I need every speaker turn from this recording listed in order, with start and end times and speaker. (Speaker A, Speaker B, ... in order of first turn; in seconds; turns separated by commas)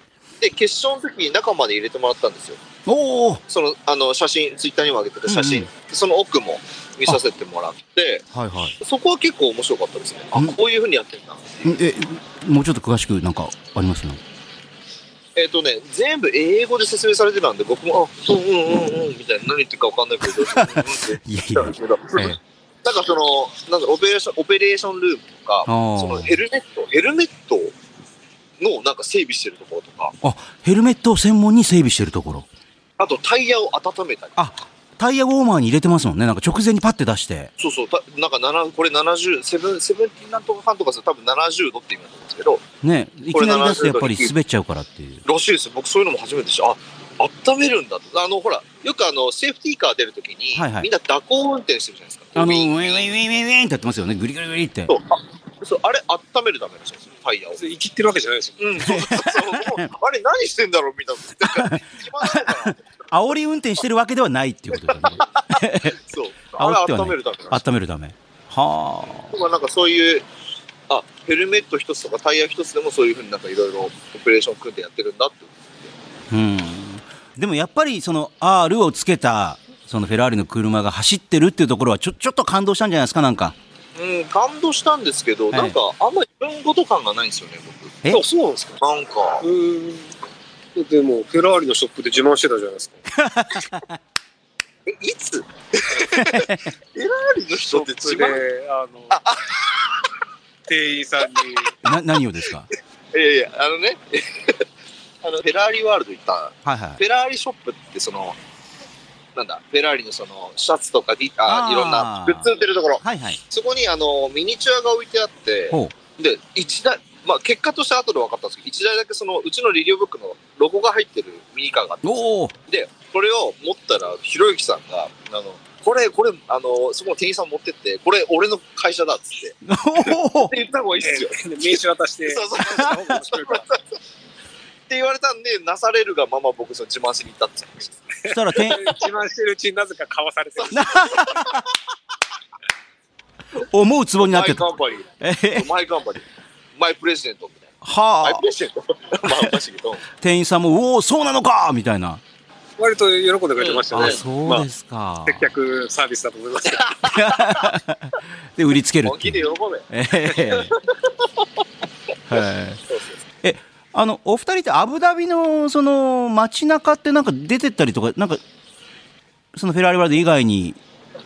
Speaker A: 0.4-2.6, Speaker B: 2.9-3.4, Speaker A: 3.5-8.2, Speaker B: 5.3-5.7, Speaker B: 8.3-8.8, Speaker A: 8.8-11.7, Speaker B: 11.6-14.2, Speaker A: 15.3-27.7, Speaker B: 20.4-22.4, Speaker B: 25.7-26.4, Speaker A: 28.6-30.1, Speaker B: 30.2-32.5, Speaker A: 33.0-34.4, Speaker B: 34.4-37.5, Speaker A: 37.6-42.6, Speaker B: 42.8-45.2, Speaker A: 43.3-44.3, Speaker A: 45.2-53.0, Speaker B: 50.5-50.9, Speaker B: 52.4-54.9, Speaker A: 54.9-57.6, Speaker C: 57.6-58.6, Speaker A: 58.6-62.9, Speaker B: 58.8-59.9, Speaker B: 61.4-66.0, Speaker A: 65.0-67.6, Speaker B: 66.6-69.3, Speaker A: 69.3-70.2, Speaker A: 70.9-75.9, Speaker B: 76.3-83.5, Speaker A: 84.0-88.0, Speaker B: 85.5-85.8, Speaker C: 88.1-88.8, Speaker A: 88.8-89.5, Speaker C: 89.4-90.1, Speaker C: 90.7-93.0, Speaker B: 93.1-94.0, Speaker A: 94.9-98.4, Speaker B: 96.1-96.7, Speaker C: 97.7-99.2, Speaker A: 99.1-100.0, Speaker C: 100.7-101.8, Speaker B: 101.8-102.7, Speaker A: 103.1-104.6, Speaker A: 105.2-108.4, Speaker B: 106.6-107.0, Speaker A: 109.3-133.8, Speaker B: 111.5-112.5, Speaker B: 113.0-113.4, Speaker B: 122.0-122.5, Speaker B: 129.6-130.5, Speaker C: 131.0-133.7, Speaker A: 134.9-138.1, Speaker C: 138.2-141.1, Speaker B: 138.3-138.9, Speaker A: 140.6-141.6, Speaker B: 140.7-141.6, Speaker B: 143.6-144.7, Speaker A: 144.2-147.7, Speaker B: 145.2-145.7, Speaker B: 147.8-148.4, Speaker A: 148.2-150.0, Speaker B: 150.2-152.2, Speaker C: 152.8-154.7, Speaker A: 153.6-154.2, Speaker B: 153.9-155.5, Speaker C: 155.2-157.0, Speaker A: 157.0-157.7, Speaker B: 157.1-160.8, Speaker A: 159.0-159.9, Speaker A: 160.6-160.9, Speaker B: 162.3-162.8, Speaker A: 162.9-163.2, Speaker B: 163.4-168.4, Speaker B: 169.5-170.8